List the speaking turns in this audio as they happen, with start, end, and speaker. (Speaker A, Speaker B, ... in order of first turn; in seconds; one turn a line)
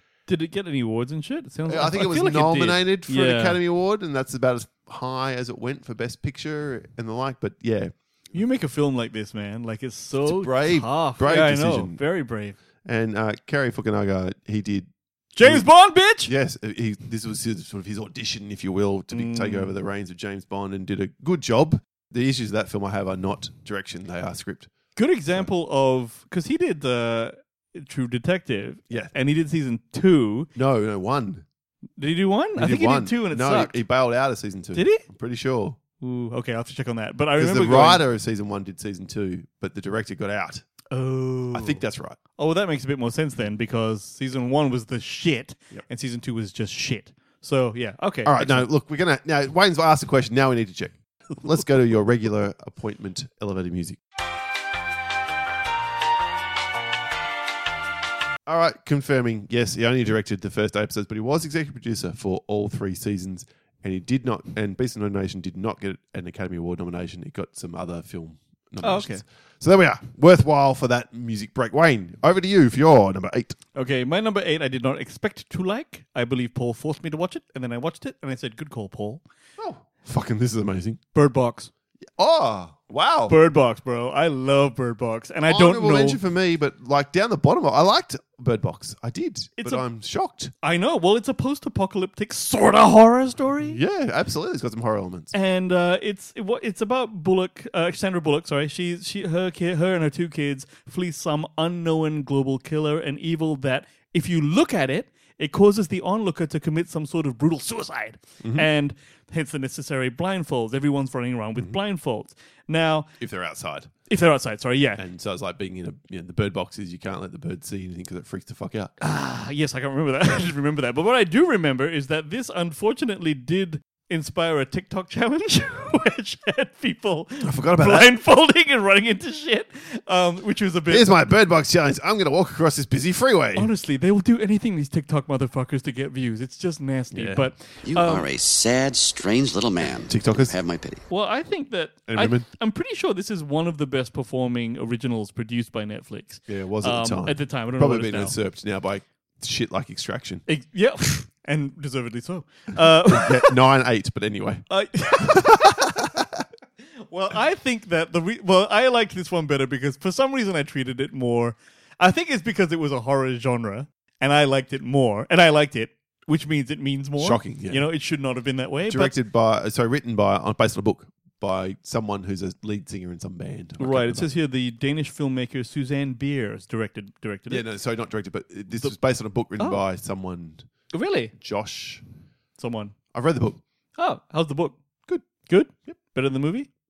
Speaker A: 0.3-3.6
Speaker B: 1.7-7.9
Speaker A: 8.3-12.6
Speaker B: 10.2-12.0
Speaker B: 12.8-14.9
Speaker A: 15.3-16.3
Speaker B: 15.4-15.7
Speaker B: 16.2-24.7
Speaker A: 19.1-19.7
Speaker A: 24.9-30.5
Speaker B: 30.5-31.4
Speaker A: 32.0-33.8
Speaker B: 32.6-35.8
Speaker A: 34.7-35.0
Speaker A: 36.0-38.0
Speaker B: 37.4-40.6
Speaker A: 40.9-41.8
Speaker B: 41.5-42.2
Speaker A: 42.4-48.7
Speaker B: 48.2-54.0
Speaker B: 58.5-73.6
Speaker A: 68.8-69.2
Speaker A: 73.7-79.2
Speaker B: 79.6-81.0
Speaker A: 81.1-81.7
Speaker B: 82.2-83.3
Speaker A: 83.3-86.2
Speaker B: 85.5-90.5
Speaker A: 89.6-89.8
Speaker A: 90.6-93.8
Speaker B: 93.6-95.3
Speaker A: 95.3-113.1
Speaker B: 108.4-108.7
Speaker B: 113.2-113.9
Speaker A: 114.1-115.0
Speaker B: 115.0-118.9
Speaker A: 119.0-131.2
Speaker B: 127.4-128.1
Speaker B: 130.9-133.7
Speaker A: 133.5-138.2
Speaker B: 137.1-137.4
Speaker C: 137.8-141.0
Speaker B: 140.1-140.6
Speaker A: 141.1-148.3
Speaker B: 142.1-142.4
Speaker B: 146.5-150.4
Speaker A: 150.5-153.5
Speaker B: 153.0-154.6
Speaker A: 154.7-156.0
Speaker B: 155.2-156.4
Speaker A: 157.1-169.2
Speaker B: 167.2-167.8
Speaker B: 168.9-174.3
Speaker A: 173.8-177.6
Speaker B: 177.5-180.7
Speaker A: 180.9-181.3
Speaker B: 181.3-182.0
Speaker A: 182.6-182.9
Speaker B: 183.1-183.6
Speaker A: 184.0-184.8
Speaker A: 185.3-186.7